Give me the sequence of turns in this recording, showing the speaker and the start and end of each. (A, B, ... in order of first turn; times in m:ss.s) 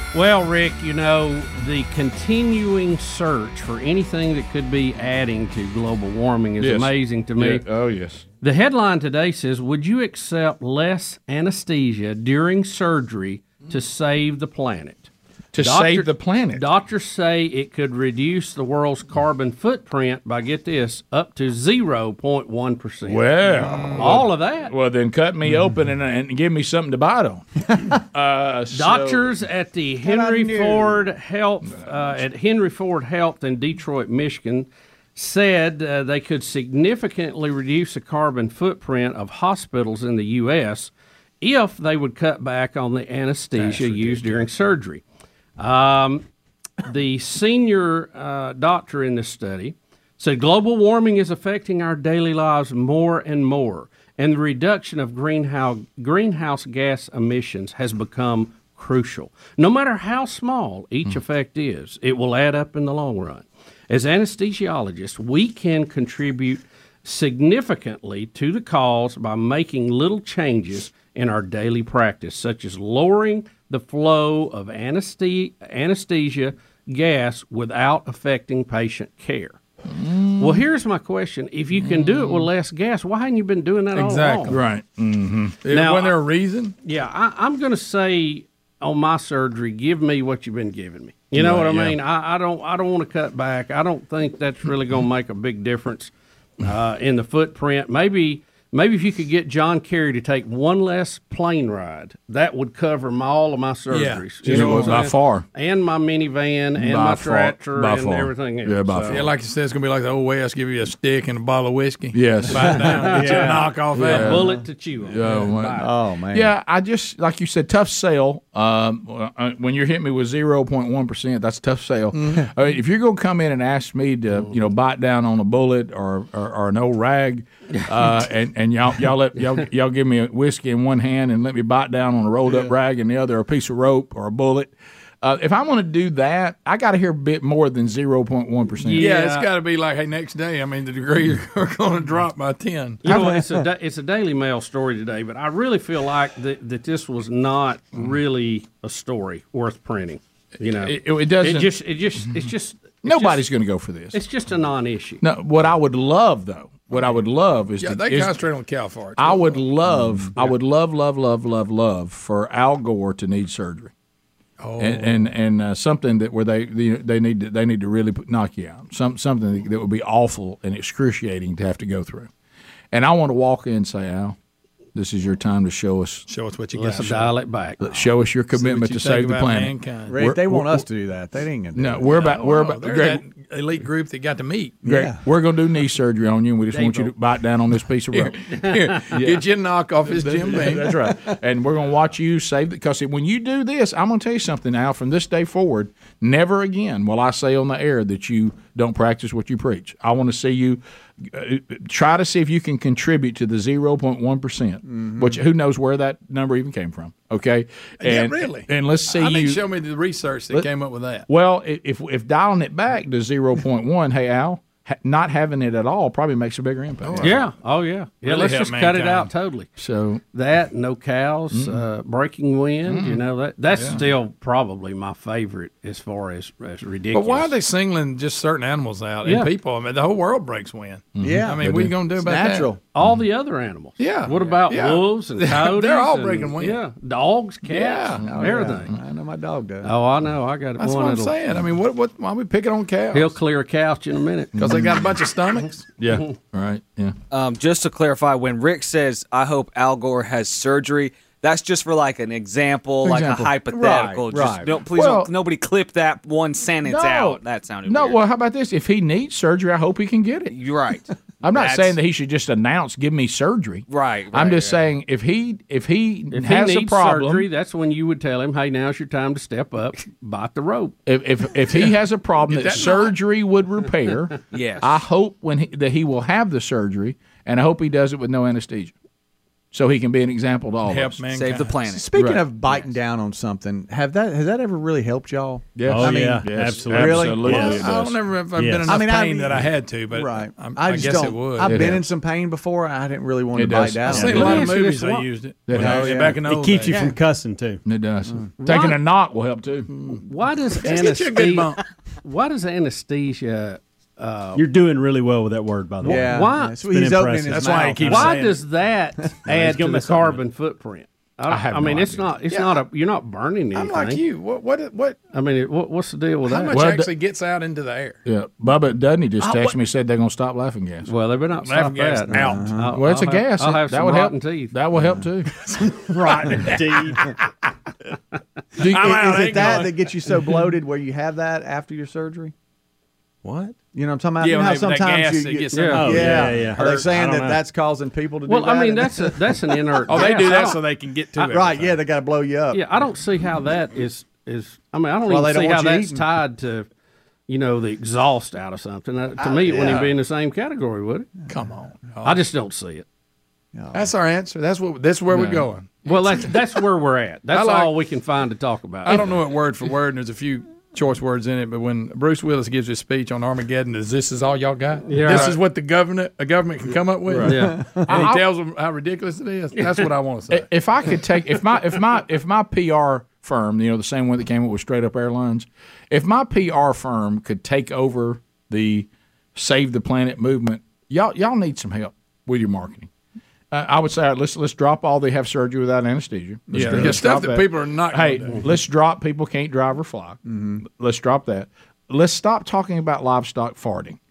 0:00.1-0:07.6 A
0:06.6-0:08.2 B
0:08.4-0:24.7 A
0:15.5-0:16.6 B
0:23.0-0:29.3 B
0:23.6-0:24.2 C
0:28.7-0:45.0 A
0:30.0-0:31.0 C
0:31.6-0:31.9 B
0:45.6-0:46.2 A
0:46.8-1:19.6 A
1:19.9-1:20.6 B
1:20.4-1:24.6 A
1:22.0-1:22.3 B
1:23.9-1:24.6 D
1:24.5-1:25.6 B
1:25.6-1:26.7 D
1:25.7-1:26.2 A
1:26.8-1:49.2 A
1:31.4-1:31.9 B
1:43.9-1:45.1 D
1:44.4-1:45.4 B
1:46.8-1:49.2 B
1:49.0-1:54.5 D
1:52.1-1:52.9 B
1:52.7-1:55.9 A
1:53.9-1:54.5 B
1:55.1-2:19.0 B
1:55.8-1:56.5 C
2:18.8-2:19.5 A
2:19.0-2:23.0 D
2:23.0-2:33.4 A
2:23.0-2:23.6 C
2:30.8-2:31.7 B
2:33.0-2:34.2 B
2:34.1-2:35.2 A
2:35.2-2:38.3 B
2:37.8-2:39.6 D
2:39.2-2:43.9 B
2:44.6-2:45.3 D
2:44.8-2:52.3 B
2:52.9-2:54.4 B
2:54.9-2:56.2 B
2:56.3-2:57.3 D
2:56.7-2:57.8 A
2:57.8-3:00.8 B
2:58.5-3:00.2 D
3:00.1-3:02.1 C
3:01.7-3:03.2 B
3:02.1-3:04.8 D
3:04.8-3:05.2 C
3:04.8-3:08.4 B
3:06.7-3:07.1 A
3:08.1-3:10.9 D
3:08.5-3:09.1 A
3:09.1-3:09.4 B
3:10.0-3:29.6 B
3:24.9-3:25.4 C
3:28.0-3:31.3 D
3:31.3-3:37.4 B
3:37.0-3:37.5 D
3:37.2-3:39.7 A
3:38.2-3:39.3 D
3:39.8-3:40.2 B
3:40.3-3:47.5 A
3:41.5-3:41.8 B
3:42.9-3:43.2 B
3:43.8-3:44.0 D
3:47.1-3:52.7 D
3:49.2-3:49.5 A
3:51.2-3:51.9 B
3:51.2-3:52.8 C
3:52.9-3:58.9 A
3:54.0-3:56.8 D
3:57.7-3:58.2 D
3:58.2-3:59.9 C
3:59.8-4:01.4 A
4:00.8-4:03.3 D
4:03.1-4:04.6 A
4:04.6-4:05.0 B
4:04.6-4:05.9 D
4:06.0-4:07.1 B
4:07.3-4:18.2 E
4:13.0-4:14.4 B
4:13.7-4:14.8 C
4:14.9-4:15.3 B
4:16.8-4:20.5 B
4:20.5-4:22.0 E
4:21.4-4:27.5 B
4:23.9-4:24.8 E
4:26.3-4:31.0 A
4:31.0-4:38.9 B
4:32.5-4:33.1 D
4:34.5-4:35.0 E
4:39.7-4:41.2 B
4:40.8-4:41.8 D
4:41.3-4:42.1 E
4:41.9-4:47.9 C
4:42.1-4:42.4 B
4:45.8-4:48.2 B
4:45.8-4:47.9 F
4:47.5-4:51.9 D
4:48.5-4:49.0 F
4:48.8-4:54.6 C
4:51.6-4:52.0 B
4:53.5-4:54.5 B
4:54.1-4:57.0 D
4:54.2-4:54.5 F
4:54.2-4:55.3 A
4:55.7-4:56.1 B
4:55.8-4:57.2 C
4:55.8-4:57.8 F
4:57.8-4:59.9 B
4:58.6-4:59.0 A
5:00.2-5:04.6 A
5:00.8-5:01.8 D
5:04.5-5:08.6 F
5:06.0-5:06.8 A
5:06.0-5:08.4 C
5:07.5-5:08.5 D
5:08.0-5:14.2 A
5:09.4-5:10.4 F
5:11.5-5:12.3 B
5:12.5-5:12.8 D
5:13.7-5:15.2 D
5:15.3-5:16.8 A
5:16.5-5:18.2 D
5:16.7-5:17.1 B
5:18.2-5:21.1 B
5:19.4-5:19.7 D
5:21.0-5:24.7 A
5:21.6-5:22.7 D
5:22.3-5:22.8 C
5:22.9-5:25.5 B
5:26.1-5:26.6 D
5:26.6-5:27.2 F
5:28.8-5:30.0 D
5:28.8-5:29.2 B
5:28.8-5:32.5 C
5:33.4-5:33.7 F
5:33.9-5:39.3 C
5:34.4-5:37.0 D
5:35.7-5:36.4 A
5:36.0-5:37.6 F
5:38.5-5:40.8 A
5:40.1-5:42.0 D
5:41.3-5:42.8 C
5:42.7-5:46.9 A
5:45.2-5:46.2 C
5:47.5-5:51.3 A
5:49.7-5:50.0 C
5:49.8-5:50.1 D
5:51.5-5:52.4 D
5:52.2-5:53.0 A
5:53.7-5:54.1 C
5:53.9-5:56.5 D
5:55.3-5:55.6 B
5:56.0-5:59.2 A
5:57.5-5:57.9 D
5:59.0-6:10.7 D
6:05.1-6:05.6 A
6:07.4-6:07.8 A
6:08.1-6:08.4 B
6:09.8-6:10.0 A
6:10.5-6:23.1 B
6:23.7-6:34.2 B
6:26.7-6:28.7 D
6:26.7-6:27.2 C
6:30.5-6:30.8 C